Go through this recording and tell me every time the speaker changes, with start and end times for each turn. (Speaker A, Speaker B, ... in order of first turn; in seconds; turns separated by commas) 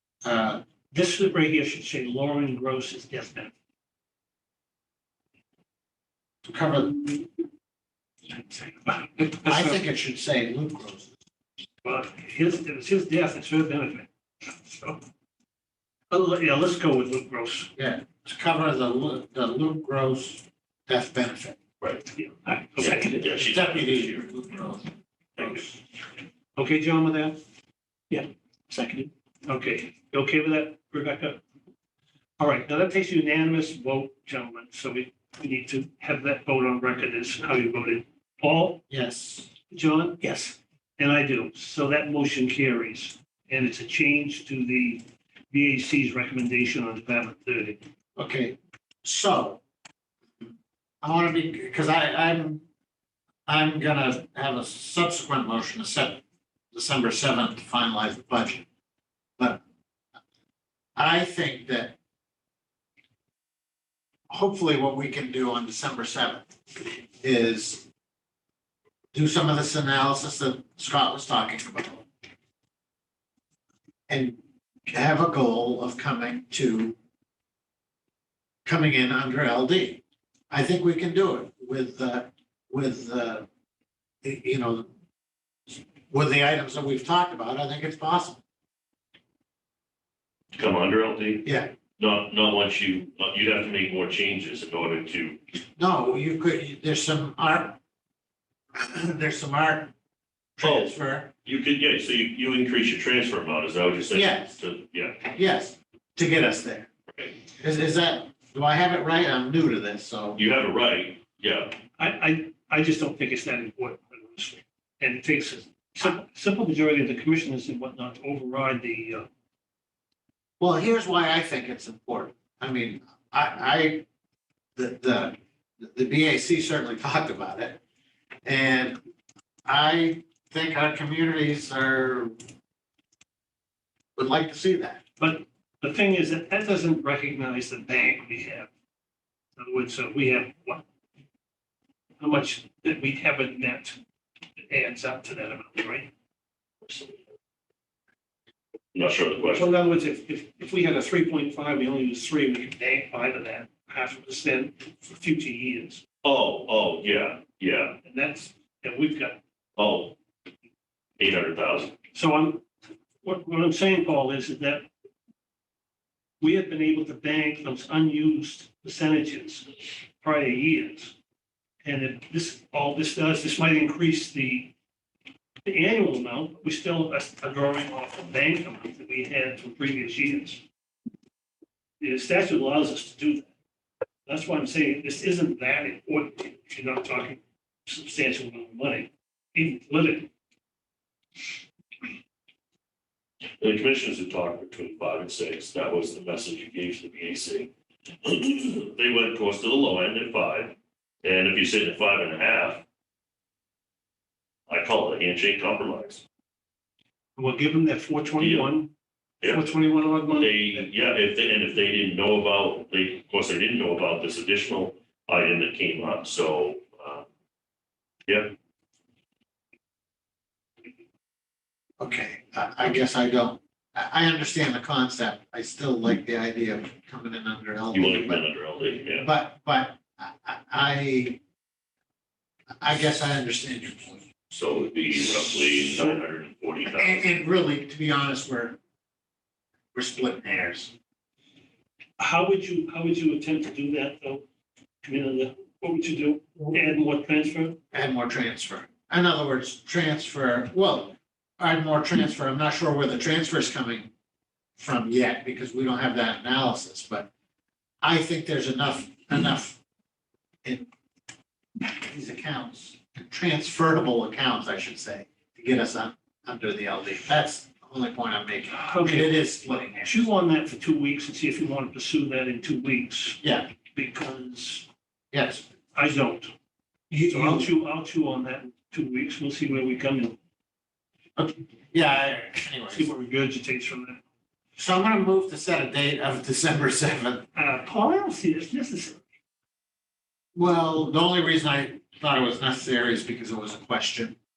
Speaker A: 0.2-0.6, Speaker B: 0.9-3.5, Speaker A: 6.5-7.2, Speaker B: 8.3-9.8, Speaker A: 9.4-11.1, Speaker B: 11.8-15.0, Speaker B: 16.1-17.7, Speaker A: 17.8-21.6, Speaker C: 21.8-22.1, Speaker B: 22.2-23.4, Speaker C: 22.8-24.3, Speaker A: 23.4-24.9, Speaker C: 25.4-25.6, Speaker A: 25.4-25.7, Speaker B: 26.6-27.4, Speaker B: 28.1-31.4, Speaker B: 32.4-38.8, Speaker A: 38.9-39.5, Speaker B: 39.7-47.8, Speaker A: 48.2-49.6, Speaker A: 51.0-52.6, Speaker A: 53.5-56.2, Speaker A: 56.7-58.6, Speaker A: 61.0-62.0, Speaker A: 64.3-66.5, Speaker A: 67.2-67.9, Speaker A: 69.1-72.1, Speaker A: 74.1-77.0, Speaker A: 78.7-83.5, Speaker A: 84.2-84.9, Speaker A: 85.7-88.4, Speaker C: 90.5-91.5, Speaker A: 91.5-91.7, Speaker C: 92.0-95.4, Speaker A: 95.8-97.8, Speaker A: 98.8-99.9, Speaker A: 100.6-101.3, Speaker C: 100.6-105.2, Speaker A: 104.1-104.6, Speaker A: 105.3-106.9, Speaker A: 107.5-110.4, Speaker C: 110.4-111.8, Speaker B: 112.0-119.3, Speaker A: 120.6-124.1, Speaker A: 124.8-127.8, Speaker A: 128.4-129.0, Speaker A: 129.7-132.3, Speaker A: 134.2-135.0, Speaker B: 135.2-138.7, Speaker B: 139.6-140.8, Speaker B: 142.2-144.0, Speaker B: 144.7-146.1, Speaker C: 146.8-147.2, Speaker C: 148.9-149.7, Speaker B: 149.5-156.0, Speaker C: 156.2-158.0, Speaker B: 158.0-159.4, Speaker C: 159.8-160.2, Speaker C: 161.2-162.0, Speaker B: 162.1-162.7, Speaker B: 163.2-164.9, Speaker B: 166.4-171.1, Speaker B: 171.8-174.7, Speaker B: 175.7-180.6, Speaker B: 182.0-183.5, Speaker B: 184.3-190.3, Speaker C: 193.6-197.7, Speaker C: 198.2-202.8, Speaker C: 204.7-206.2, Speaker B: 207.4-208.9, Speaker C: 208.4-208.8, Speaker C: 209.4-209.7, Speaker B: 209.4-210.9, Speaker C: 210.3-217.3, Speaker C: 218.3-218.5, Speaker A: 222.0-228.4, Speaker C: 227.9-229.3, Speaker A: 229.2-231.4, Speaker A: 232.8-234.3, Speaker C: 234.5-237.2, Speaker A: 235.8-236.2, Speaker A: 236.9-238.8, Speaker A: 239.9-240.9, Speaker B: 242.2-244.4, Speaker B: 245.0-247.8, Speaker A: 247.9-254.1, Speaker A: 254.8-257.3, Speaker A: 258.0-259.8, Speaker A: 261.9-270.3, Speaker B: 268.7-274.9, Speaker A: 273.4-273.7, Speaker A: 275.3-275.6, Speaker B: 275.9-276.5, Speaker A: 277.1-277.7, Speaker B: 277.2-280.4, Speaker A: 281.4-283.1, Speaker B: 282.9-284.2, Speaker A: 284.8-287.4, Speaker B: 287.6-289.2, Speaker A: 290.6-294.4